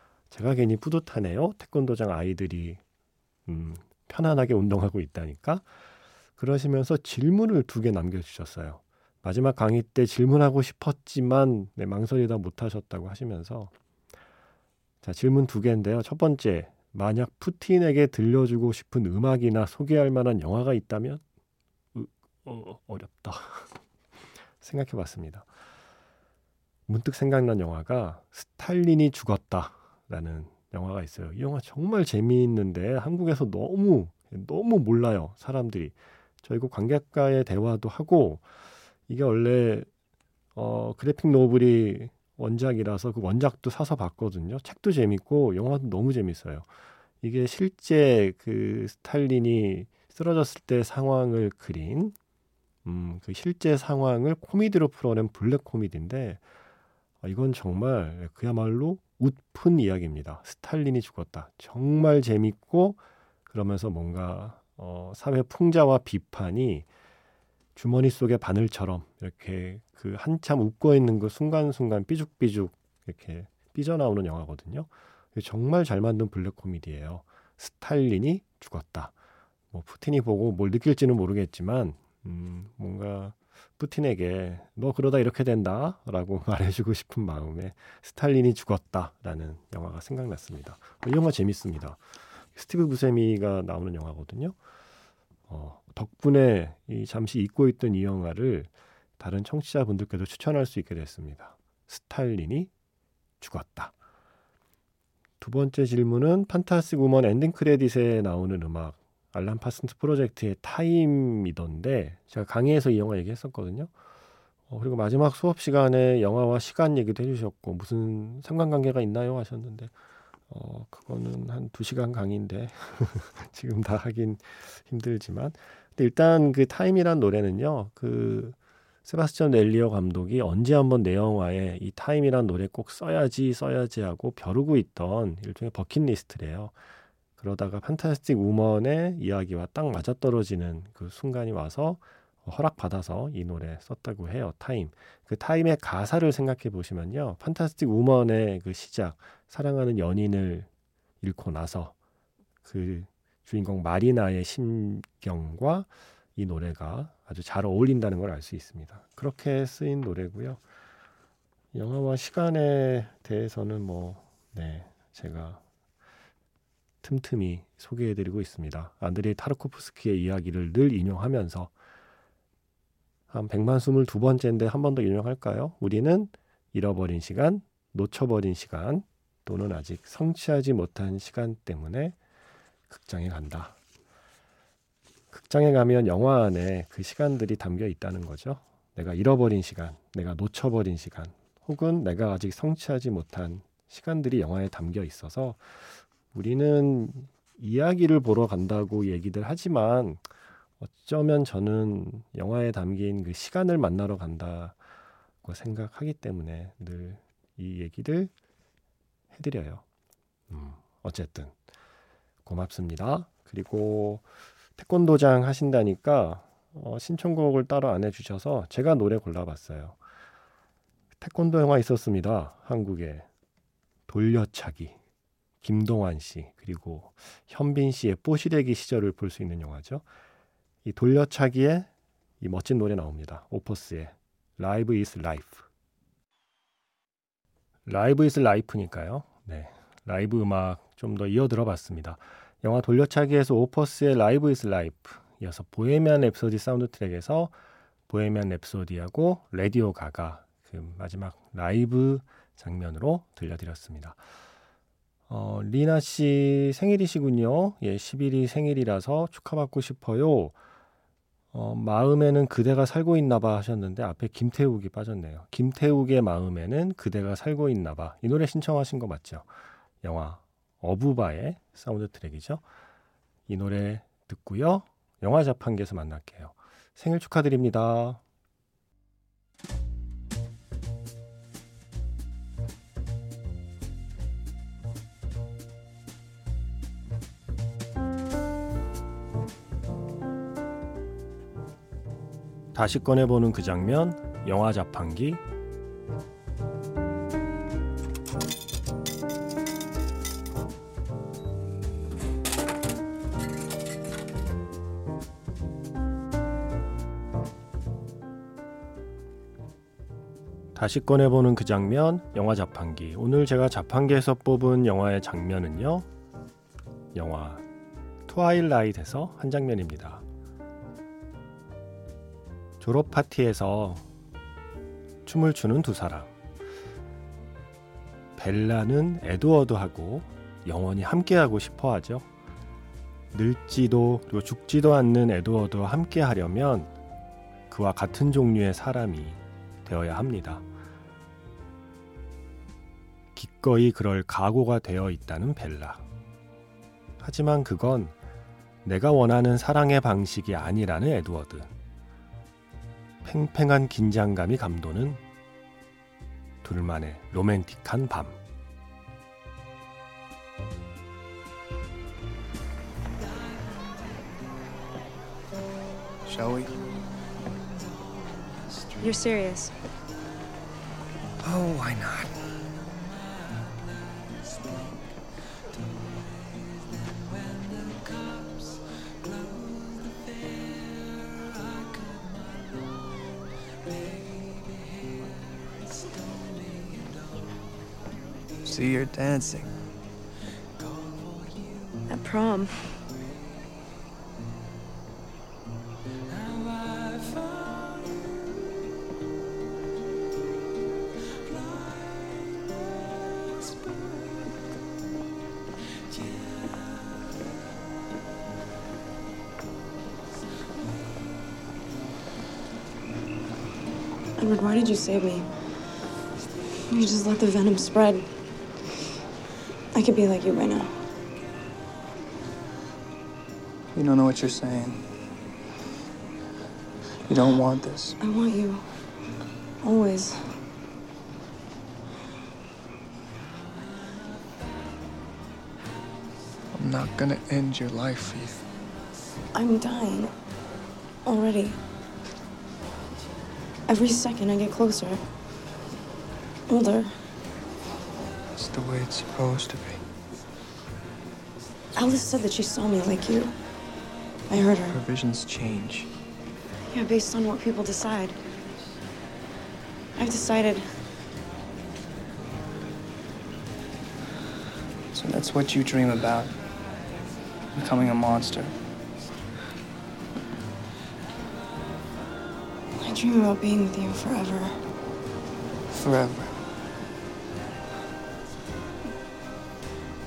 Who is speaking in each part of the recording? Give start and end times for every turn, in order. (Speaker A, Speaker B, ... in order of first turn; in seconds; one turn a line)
Speaker A: 0.3-2.8
Speaker A: 3.5-5.7
Speaker A: 6.4-13.7
Speaker A: 15.0-21.2
Speaker A: 21.9-23.8
Speaker A: 24.6-25.5
Speaker A: 26.9-38.5
Speaker A: 39.1-39.9
Speaker A: 40.6-46.7
Speaker A: 47.2-52.1
Speaker A: 52.9-56.4
Speaker A: 57.2-66.9
Speaker A: 67.8-79.1
Speaker A: 79.7-94.6
Speaker A: 95.5-102.7
Speaker A: 103.4-103.9
Speaker A: 105.4-113.9
Speaker A: 114.7-119.9
Speaker A: 120.5-136.8
Speaker A: 137.4-150.7
Speaker A: 151.2-151.9
Speaker A: 152.6-160.6
Speaker A: 161.7-165.6
Speaker A: 167.0-171.7
Speaker A: 173.3-182.2
Speaker A: 182.9-183.8
Speaker A: 185.3-200.2
Speaker A: 200.8-204.8
Speaker A: 205.4-208.3
Speaker A: 209.3-209.8
Speaker A: 210.5-211.5
Speaker A: 212.4-214.2
Speaker A: 214.8-220.0
Speaker A: 221.2-223.3
Speaker A: 224.1-224.9
Speaker A: 225.6-230.0
Speaker A: 230.8-231.9
Speaker A: 232.4-235.7
Speaker A: 237.9-247.5
Speaker A: 248.1-254.2
Speaker A: 255.3-260.6
Speaker A: 261.5-269.5
Speaker A: 270.0-272.6
Speaker A: 273.5-278.2
Speaker A: 292.7-295.4
Speaker A: 310.8-316.1
Speaker A: 317.1-317.6
Speaker A: 318.3-320.2
Speaker A: 322.8-324.1
Speaker A: 325.2-326.3
Speaker A: 328.4-332.3
Speaker A: 333.3-336.9
Speaker A: 337.7-340.6
Speaker A: 343.4-346.0
Speaker A: 347.2-348.1
Speaker A: 348.8-351.7
Speaker A: 353.2-355.2
Speaker A: 356.6-358.4
Speaker B: 366.2-366.8
Speaker C: 369.0-369.7
Speaker B: 371.4-372.6
Speaker B: 374.4-374.7
Speaker B: 375.8-378.7
Speaker B: 379.2-382.1
Speaker B: 386.4-387.0
Speaker B: 388.6-389.8
Speaker B: 390.8-391.1
Speaker C: 392.1-393.0
Speaker B: 396.5-396.9
Speaker C: 414.4-415.5
Speaker C: 416.9-418.3
Speaker C: 419.9-421.0
Speaker B: 423.9-425.1
Speaker B: 427.3-428.2
Speaker C: 428.2-428.9
Speaker C: 429.8-430.6
Speaker B: 436.7-438.7
Speaker C: 439.5-440.3
Speaker C: 441.2-441.8
Speaker C: 443.9-445.2
Speaker C: 446.7-447.2
Speaker B: 448.6-450.0
Speaker C: 451.9-453.6
Speaker C: 454.5-455.0
Speaker B: 454.7-456.1
Speaker C: 456.9-458.4
Speaker C: 460.2-460.9
Speaker B: 465.1-466.6
Speaker B: 467.7-468.8
Speaker C: 473.0-474.8
Speaker B: 475.9-476.5